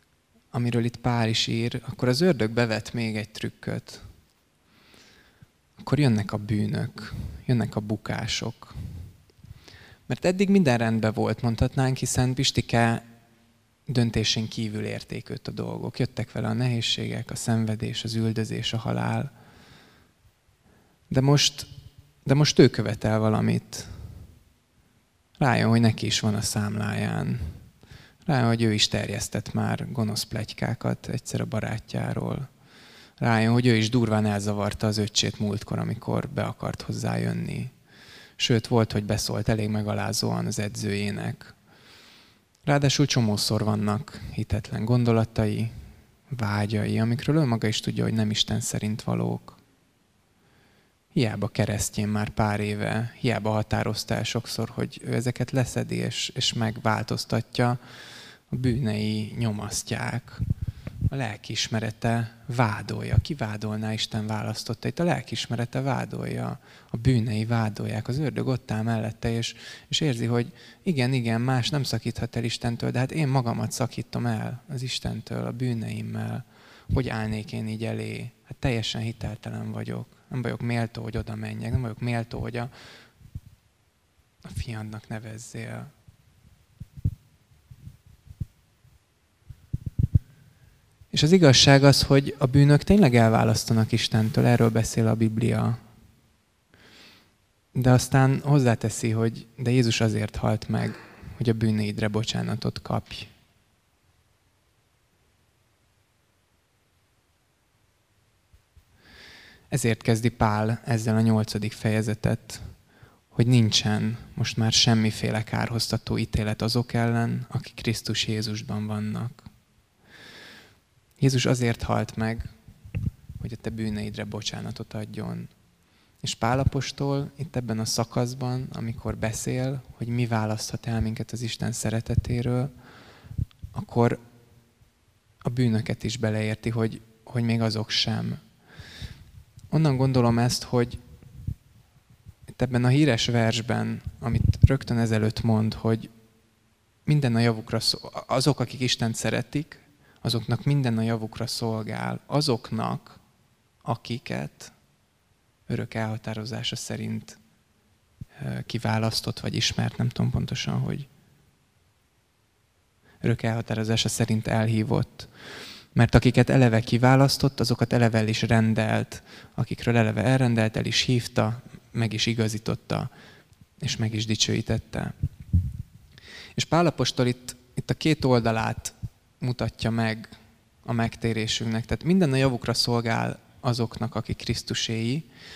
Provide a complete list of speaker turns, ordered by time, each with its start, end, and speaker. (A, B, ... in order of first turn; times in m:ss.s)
0:00.5-0:04.0 A
0:05.8-0:08.8 A
0:10.1-0:13.0 A
0:13.9-0:19.3 A
0:21.1-0:21.7 A
0:22.2-0:23.9 A
0:25.4-0:27.4 A
0:28.3-0:32.5 A
0:33.2-0:37.7 A
0:38.4-0:41.5 A
0:42.7-0:45.7 A
0:46.3-0:49.6 A
0:51.1-0:57.8 A
0:58.5-1:00.4 A
1:01.1-1:22.7 A
1:24.4-1:25.9 A
1:31.1-1:35.8 A
1:37.8-1:43.3 A
1:49.7-1:52.7 A
1:53.3-1:59.4 A
2:01.2-2:02.5 A
2:03.4-2:05.5 A
2:06.2-2:12.7 A
2:13.7-2:14.2 A
2:15.4-2:18.4 A
2:19.7-2:21.0 A
2:22.6-2:26.1 A
2:27.1-2:33.2 A
2:33.8-2:34.7 A
2:35.7-2:37.4 A
2:38.4-2:41.1 A
2:43.2-2:45.3 A
2:46.0-2:53.1 A
2:53.8-2:55.1 A
2:56.6-3:00.3 A
3:00.9-3:05.3 A